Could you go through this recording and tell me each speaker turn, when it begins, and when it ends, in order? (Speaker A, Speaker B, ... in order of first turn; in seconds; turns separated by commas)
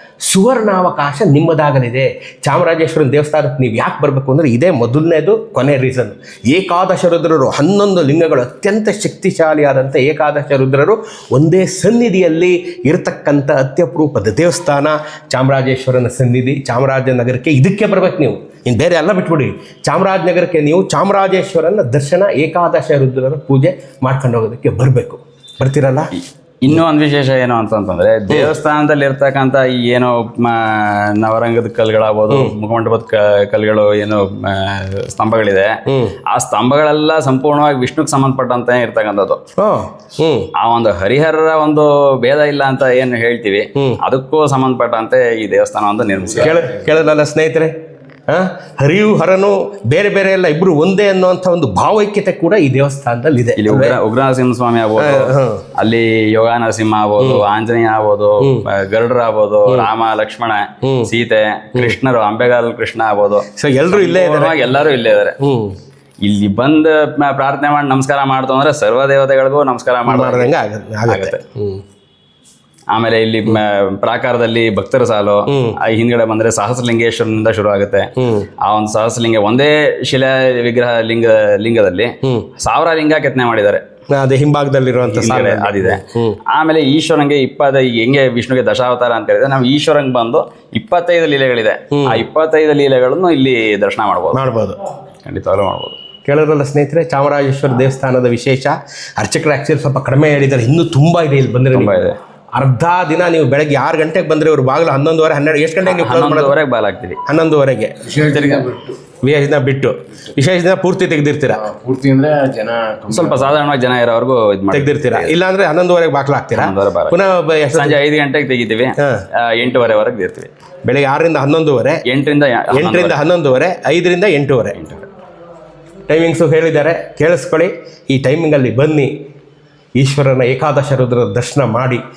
Speaker A: 0.2-26.1, Speaker B: 26.1-39.4, Speaker A: 28.3-28.5, Speaker A: 32.3-32.5, Speaker A: 35.9-36.1, Speaker A: 39.6-40.5, Speaker B: 40.5-46.7, Speaker C: 46.3-46.6, Speaker A: 46.4-47.7, Speaker A: 48.3-54.0, Speaker B: 53.6-65.4, Speaker A: 55.0-55.6, Speaker A: 57.2-57.5, Speaker A: 58.4-58.7, Speaker A: 60.8-61.1, Speaker A: 63.5-64.6, Speaker A: 65.4-65.8, Speaker B: 66.2-70.5, Speaker A: 70.0-71.8, Speaker B: 71.0-71.4, Speaker B: 72.9-78.1, Speaker A: 75.5-75.8, Speaker A: 78.2-78.5, Speaker B: 78.6-83.8, Speaker A: 84.1-86.4, Speaker B: 85.1-94.4, Speaker A: 91.9-92.2, Speaker A: 94.3-94.8, Speaker B: 95.2-96.0, Speaker A: 96.3-102.0, Speaker B: 101.7-102.2, Speaker A: 102.5-106.5, Speaker B: 105.8-107.2, Speaker A: 107.3-108.0, Speaker C: 108.0-109.0, Speaker B: 108.2-108.7, Speaker A: 109.2-111.6, Speaker C: 111.6-113.5, Speaker B: 113.1-115.3, Speaker A: 114.7-118.0, Speaker B: 116.5-117.2, Speaker B: 117.7-120.5, Speaker A: 119.0-119.2, Speaker A: 120.8-122.0, Speaker B: 122.0-123.2, Speaker A: 122.7-124.9, Speaker B: 124.7-125.0, Speaker A: 126.1-129.1, Speaker A: 130.0-132.0